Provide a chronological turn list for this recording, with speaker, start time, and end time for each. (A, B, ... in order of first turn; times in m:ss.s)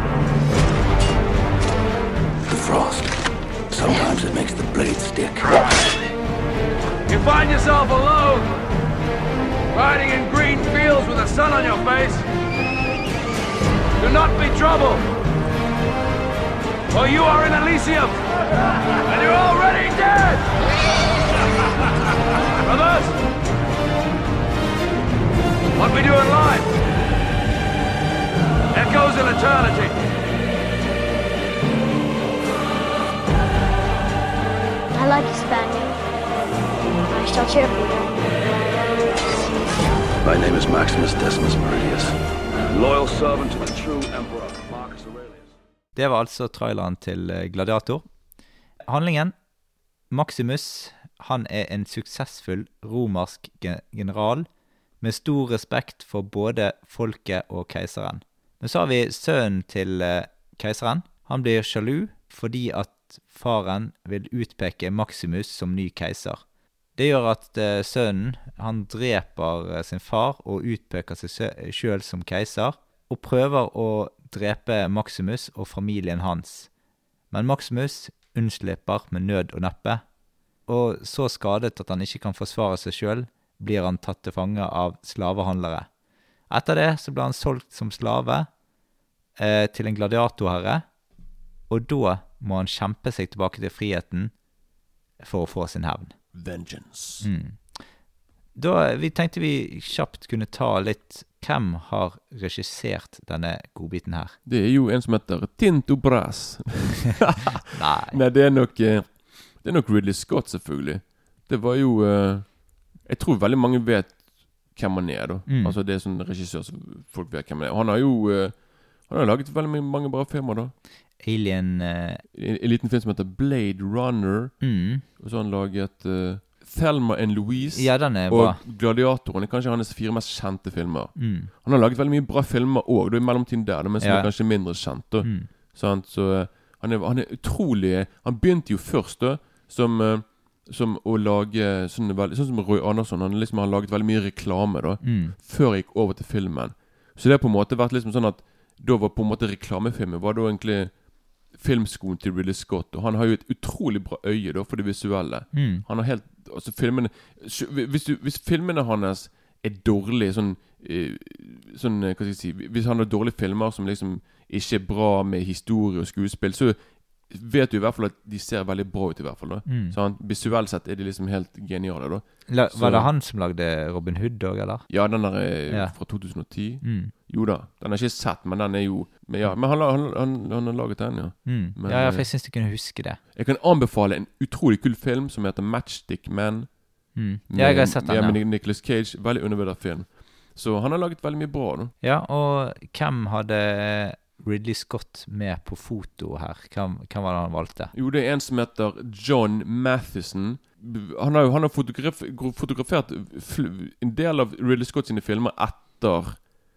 0:02.5-0:03.2 A
0:03.7-0:05.8 A
0:07.0-0:08.5 B
0:09.7-0:12.2 B
0:14.0-0:15.0 B
0:16.9-0:18.2 B
0:19.1-0:20.4 B
0:22.6-0:23.1 B
0:25.7-0:26.7 B
0:28.7-0:29.9 B
0:34.9-0:36.0 C
0:37.1-0:38.1 C
0:40.2-0:42.2 A
0:42.7-0:45.4 A
0:46.0-0:48.0 D
0:48.9-0:49.3 D
0:50.1-0:54.5 D
0:55.0-1:06.4 D
1:07.0-1:16.7 D
1:17.3-1:20.0 D
1:20.7-1:25.9 D
1:26.5-1:28.5 D
1:29.4-1:30.8 D
1:31.7-1:34.3 D
1:35.2-1:36.1 D
1:36.3-1:37.3 E
1:37.2-1:37.6 D
1:38.6-1:44.4 D
1:44.4-1:54.2 E
1:47.7-1:48.2 D
1:54.7-2:00.7 E
1:55.5-1:55.8 D
2:01.2-2:02.2 D
2:02.3-2:04.6 E
2:04.6-2:05.0 D
2:05.2-2:46.8 E
2:07.7-2:08.6 D
2:11.2-2:11.5 D
2:14.0-2:14.3 D
2:15.2-2:15.5 D
2:25.0-2:25.3 D
2:35.5-2:35.8 D
2:47.3-2:53.1 E
2:49.6-2:50.0 D
2:52.5-2:54.8 D
2:54.9-3:02.3 E
2:55.7-2:55.9 D
2:56.8-2:57.1 D
3:01.4-3:03.2 D
3:03.3-3:06.8 E
3:07.1-3:08.4 D
3:07.5-3:11.9 E
3:12.0-3:17.9 D
3:17.9-3:26.5 E